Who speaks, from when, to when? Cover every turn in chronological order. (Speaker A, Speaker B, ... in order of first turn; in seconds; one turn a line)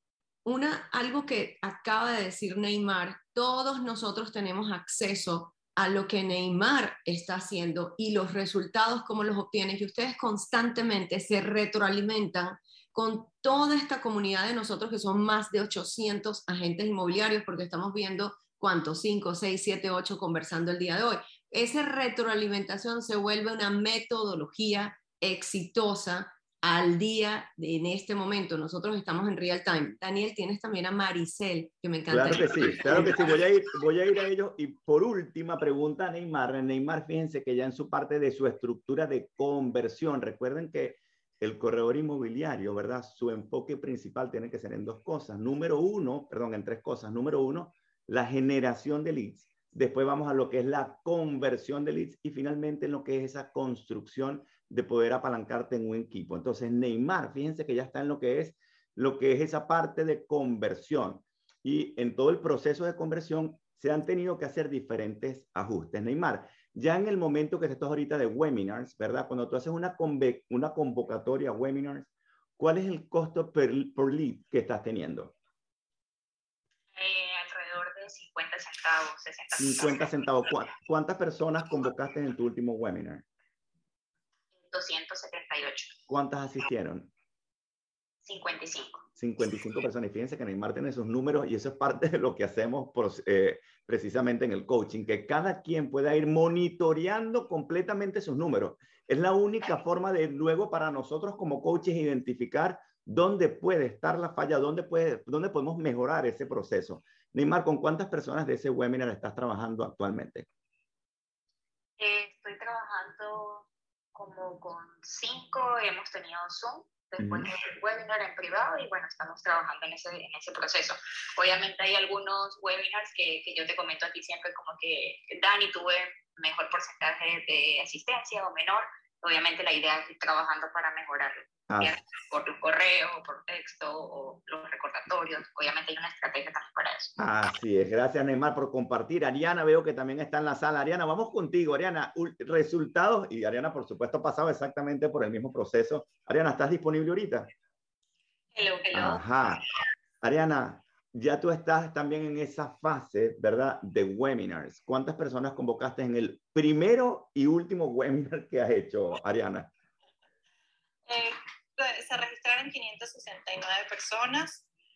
Speaker A: 0.5-33.1
Speaker B: 32.1-72.1
Speaker B: 72.6-75.3
Speaker C: 77.0-80.1
Speaker B: 79.6-83.3
Speaker C: 84.6-85.9
Speaker B: 86.1-87.1
Speaker C: 88.2-89.0
Speaker B: 89.2-110.5
Speaker C: 112.0-137.2
Speaker B: 117.2-117.5
Speaker B: 131.7-132.0
Speaker B: 137.2-147.5
Speaker C: 148.5-149.2
Speaker B: 148.9-149.6
Speaker B: 150.2-159.7
Speaker D: 161.1-164.7